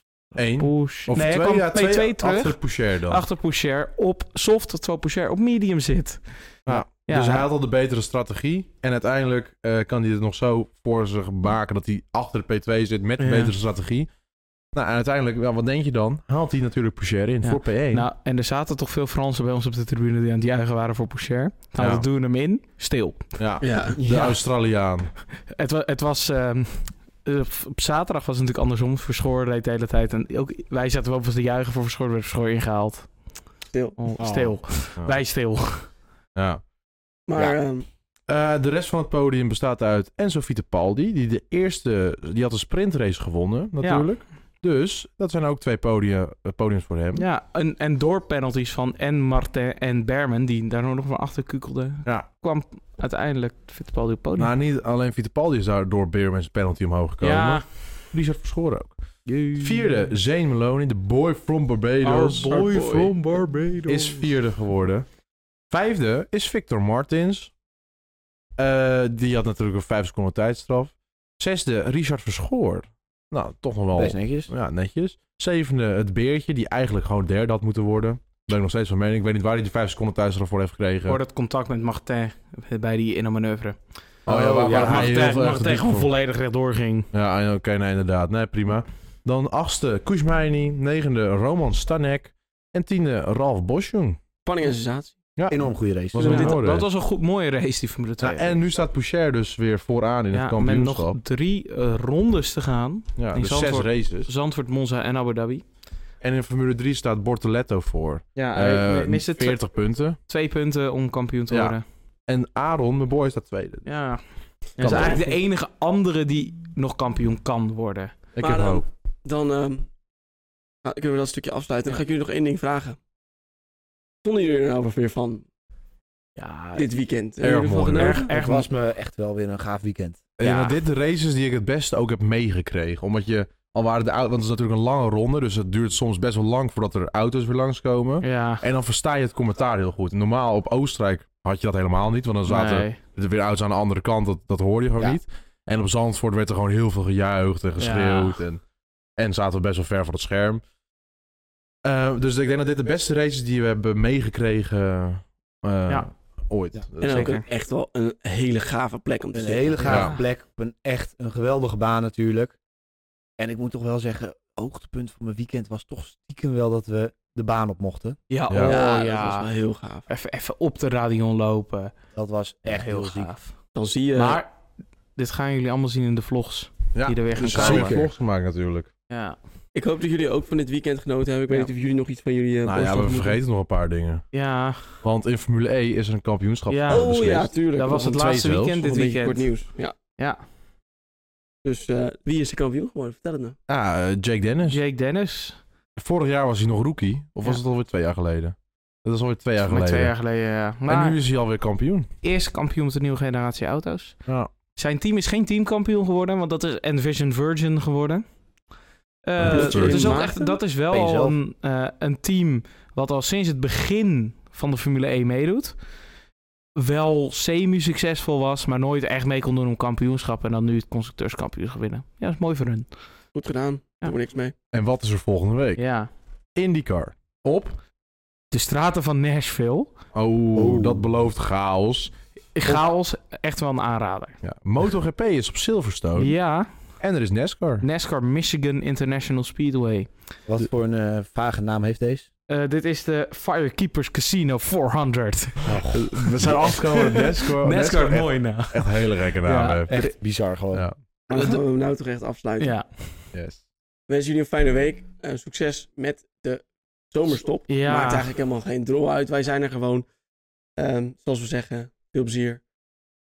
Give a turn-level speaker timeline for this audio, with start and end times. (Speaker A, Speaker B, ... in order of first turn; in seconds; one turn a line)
Speaker A: 0.3-3.2
Speaker B: 0.6-7.5
Speaker A: 6.7-14.1
Speaker B: 13.2-13.5
Speaker A: 14.7-18.1
Speaker B: 17.4-23.4
Speaker A: 21.8-22.1
Speaker A: 23.4-25.1
Speaker C: 23.6-24.0
Speaker D: 24.0-24.3
Speaker B: 25.4-33.5
Speaker C: 33.7-34.0
Speaker B: 34.0-36.0
Speaker D: 34.2-34.6
Speaker A: 36.4-36.6
Speaker C: 37.3-37.9
Speaker A: 38.3-47.2
Speaker B: 43.8-44.3
Speaker B: 47.1-54.5
Speaker A: 54.4-65.1
Speaker B: 57.2-57.9
Speaker B: 59.3-59.9
Speaker B: 62.0-64.2
Speaker C: 62.5-63.1
Speaker A: 65.7-67.5
Speaker A: 68.6-81.2
Speaker D: 73.9-74.5
Speaker B: 81.1-83.8
Speaker D: 84.3-85.2
Speaker A: 84.3-86.1
Speaker B: 84.4-87.1
Speaker A: 87.1-94.2
Speaker C: 94.5-95.1
Speaker A: 95.4-96.9
Speaker D: 95.5-96.6
Speaker B: 96.2-98.7
Speaker A: 98.2-101.2
Speaker B: 100.3-105.6
Speaker A: 103.2-104.3
Speaker A: 106.2-110.2
Speaker B: 108.3-111.8
Speaker A: 111.5-113.9
Speaker B: 113.8-118.3
Speaker A: 114.8-115.1
Speaker C: 114.8-115.4
Speaker A: 118.3-118.8
Speaker C: 118.4-119.9
Speaker C: 120.8-123.0
Speaker C: 124.2-125.5
Speaker B: 126.4-126.9
Speaker C: 126.8-128.3
Speaker A: 127.4-128.2
Speaker B: 128.0-128.7
Speaker D: 128.2-130.2
Speaker A: 130.4-148.6
Speaker B: 130.4-130.8
Speaker B: 138.2-138.6
Speaker B: 142.5-143.0
Speaker B: 147.8-148.4
Speaker A: 149.2-150.6
Speaker A: 151.8-157.3
Speaker C: 157.0-160.0
Speaker B: 157.1-157.4
Speaker D: 159.3-162.6
Speaker A: 159.8-160.2
Speaker B: 159.9-160.2
Speaker D: 163.4-168.2
Speaker B: 168.3-169.5
Speaker A: 168.5-168.8
Speaker C: 168.6-170.1
Speaker B: 170.1-171.9
Speaker D: 172.2-173.3
Speaker B: 172.7-174.5
Speaker C: 173.7-174.4
Speaker B: 175.2-178.0
Speaker A: 176.9-178.9
Speaker C: 177.3-177.8
Speaker D: 177.5-178.1
Speaker B: 179.1-179.4
Speaker C: 179.7-183.4
Speaker A: 182.7-184.3
Speaker B: 184.3-185.0
Speaker A: 184.9-187.5
Speaker B: 186.7-190.4
Speaker C: 186.9-190.0
Speaker A: 188.1-188.8
Speaker C: 191.6-193.6
Speaker A: 193.7-194.8
Speaker B: 194.7-195.6
Speaker A: 196.0-200.2
Speaker B: 199.6-201.2
Speaker A: 200.9-202.1
Speaker B: 202.2-208.2
Speaker B: 209.2-215.8
Speaker A: 209.4-210.1
Speaker C: 209.5-210.6
Speaker D: 210.9-211.3
Speaker B: 216.8-222.9
Speaker C: 223.3-224.5
Speaker A: 224.7-225.8
Speaker B: 225.8-226.1
Speaker A: 226.6-227.8
Speaker B: 228.5-229.9
Speaker A: 230.1-232.8
Speaker D: 230.6-231.1
Speaker B: 232.6-234.4
Speaker A: 234.4-237.8
Speaker B: 236.2-237.0
Speaker B: 237.8-240.1
Speaker D: 240.5-242.3
Speaker B: 242.5-250.2
Speaker D: 245.7-246.1
Speaker A: 245.9-250.1
Speaker D: 249.9-250.9
Speaker A: 250.7-251.0
Speaker C: 251.3-252.8
Speaker B: 251.3-251.6
Speaker B: 252.6-253.3
Speaker A: 253.3-253.6
Speaker C: 254.1-260.1
Speaker B: 257.7-258.3
Speaker C: 260.8-262.6